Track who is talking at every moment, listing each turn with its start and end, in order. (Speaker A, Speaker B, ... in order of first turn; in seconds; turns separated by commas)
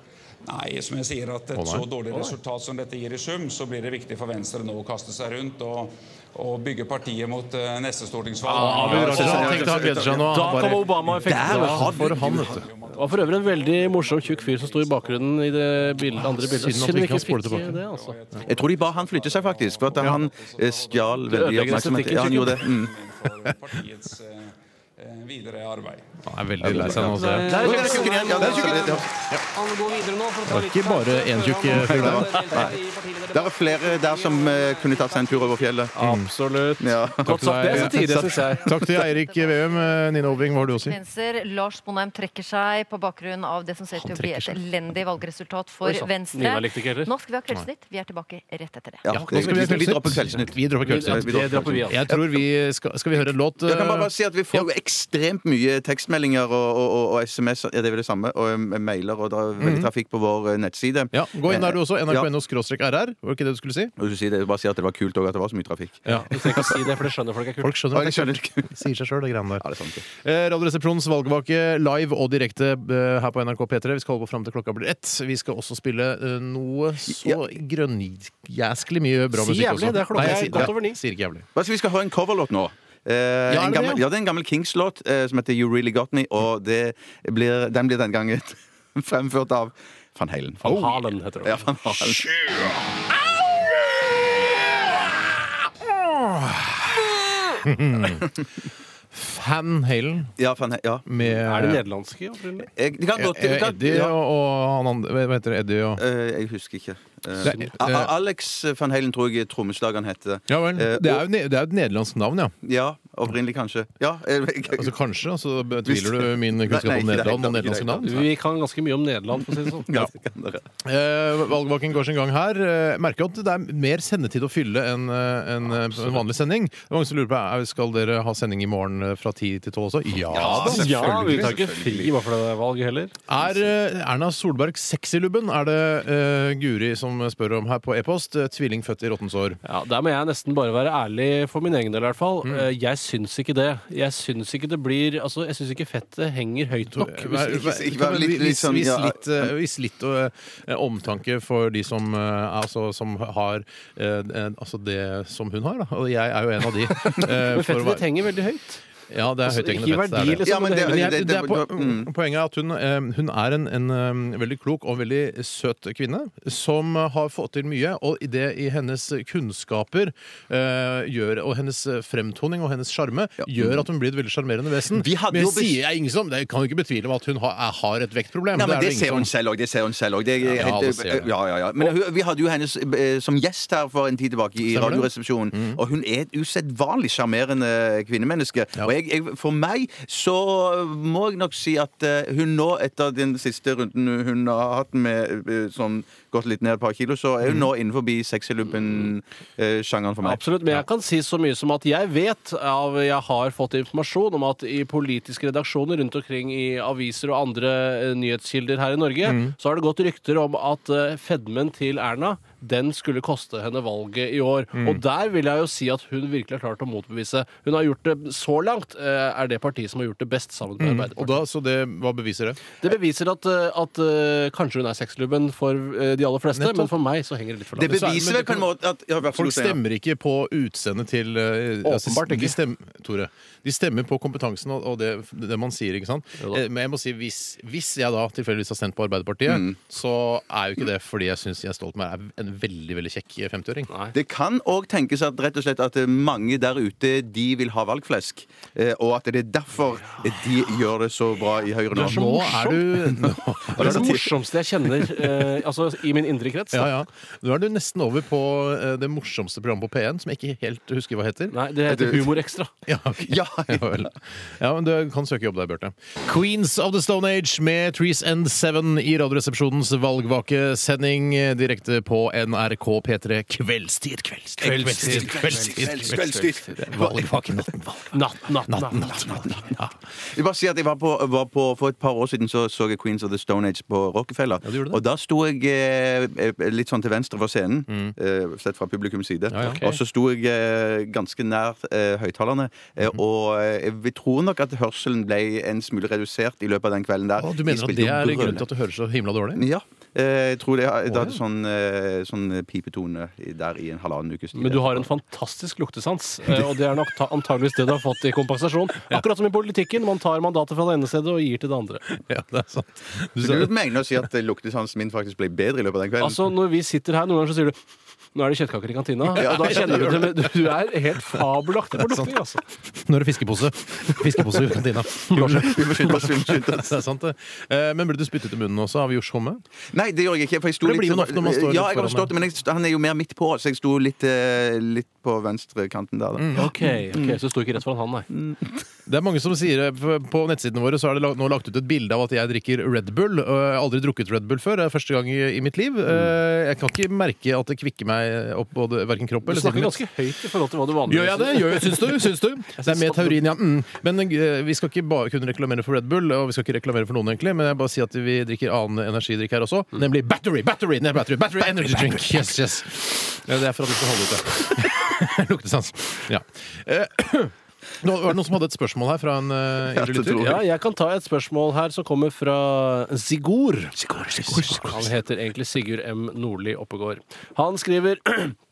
Speaker A: 0.5-26.2, Speaker B: 1.5-1.9, Speaker B: 8.4-12.6, Speaker C: 8.5-12.0, Speaker D: 8.8-10.2, Speaker D: 11.3-12.6, Speaker C: 12.9-18.2, Speaker B: 16.2-17.8, Speaker D: 18.4-22.9, Speaker C: 21.3-22.6, Speaker B: 23.4-23.7, Speaker B: 26.2-29.4, Speaker D: 26.6-29.1, Speaker E: 27.0-29.0, Speaker C: 27.4-28.8, Speaker E: 29.5-35.8, Speaker B: 30.4-32.6, Speaker D: 31.7-32.8, Speaker D: 33.3-35.9, Speaker C: 35.9-38.8, Speaker B: 36.0-36.3, Speaker D: 36.8-38.3, Speaker B: 37.2-41.0, Speaker F: 38.5-49.0, Speaker B: 43.9-44.6, Speaker C: 45.8-47.1, Speaker D: 49.0-52.4, Speaker B: 49.1-54.7, Speaker C: 50.8-52.0, Speaker D: 53.6-62.3, Speaker B: 59.6-59.9, Speaker B: 61.1-63.9, Speaker D: 64.0-66.7, Speaker B: 66.0-66.8, Speaker C: 66.1-67.8, Speaker B: 67.6-81.5, Speaker D: 67.9-68.8, Speaker D: 69.6-70.0, Speaker D: 77.1-77.4, Speaker C: 79.3-81.0, Speaker D: 80.2-80.8, Speaker D: 81.5-92.2, Speaker B: 83.5-84.0, Speaker C: 90.6-91.7, Speaker B: 92.0-92.8, Speaker B: 95.8-98.2, Speaker D: 98.0-98.3, Speaker B: 99.1-100.3, Speaker D: 100.4-101.8, Speaker B: 101.0-101.8, Speaker C: 101.5-102.7, Speaker D: 102.7-104.1, Speaker B: 103.1-106.0, Speaker D: 106.0-111.2, Speaker B: 107.4-108.1, Speaker C: 107.5-107.7, Speaker B: 110.5-112.5, Speaker D: 112.6-114.9, Speaker B: 114.7-118.2, Speaker D: 115.9-118.2, Speaker C: 118.0-120.0, Speaker D: 119.9-120.6, Speaker B: 120.8-131.6, Speaker D: 130.1-132.2, Speaker C: 130.4-133.1, Speaker B: 133.3-139.6, Speaker C: 139.6-147.4, Speaker B: 146.9-158.1, Speaker D: 147.3-149.5, Speaker C: 157.4-158.8, Speaker B: 159.1-179.3, Speaker C: 159.4-161.1, Speaker D: 160.4-162.1, Speaker D: 173.4-173.8, Speaker D: 174.9-175.8, Speaker D: 178.5-200.4, Speaker B: 180.4-181.3, Speaker B: 184.7-185.8, Speaker B: 197.4-197.7, Speaker C: 200.2-221.4, Speaker B: 209.2-209.5, Speaker B: 214.8-215.0, Speaker B: 220.8-222.6, Speaker C: 222.8-228.0, Speaker B: 226.5-226.9, Speaker D: 227.8-229.8, Speaker B: 227.8-228.7, Speaker B: 229.3-243.9, Speaker C: 231.8-232.6, Speaker D: 239.5-239.8, Speaker D: 244.1-254.3, Speaker B: 251.9-254.2, Speaker C: 251.9-252.7, Speaker C: 253.8-256.9, Speaker B: 256.7-261.6, Speaker C: 261.5-262.7, Speaker D: 261.9-262.4, Speaker B: 262.9-279.9, Speaker D: 263.2-264.1, Speaker C: 274.6-276.2, Speaker D: 274.6-277.4, Speaker C: 278.1-279.6, Speaker D: 279.1-279.5, Speaker D: 280.3-298.6, Speaker B: 284.6-285.0, Speaker B: 287.9-288.1, Speaker B: 289.5-289.9, Speaker C: 289.6-289.9, Speaker B: 297.4-299.7, Speaker D: 299.6-305.1, Speaker B: 301.1-301.4, Speaker C: 304.5-312.0, Speaker B: 312.1-313.7, Speaker D: 313.4-316.4, Speaker C: 316.2-317.8, Speaker C: 318.3-322.6, Speaker B: 319.3-320.5, Speaker D: 319.4-320.1, Speaker B: 321.3-329.6, Speaker D: 325.3-327.0, Speaker D: 329.9-337.4, Speaker B: 330.8-332.3, Speaker B: 336.4-336.7, Speaker C: 336.6-338.3, Speaker D: 338.3-338.8, Speaker B: 339.1-350.0, Speaker C: 349.4-353.4, Speaker B: 351.1-370.5, Speaker D: 369.9-370.6, Speaker C: 370.4-373.9, Speaker D: 374.0-375.0, Speaker B: 374.1-375.0, Speaker C: 374.8-378.6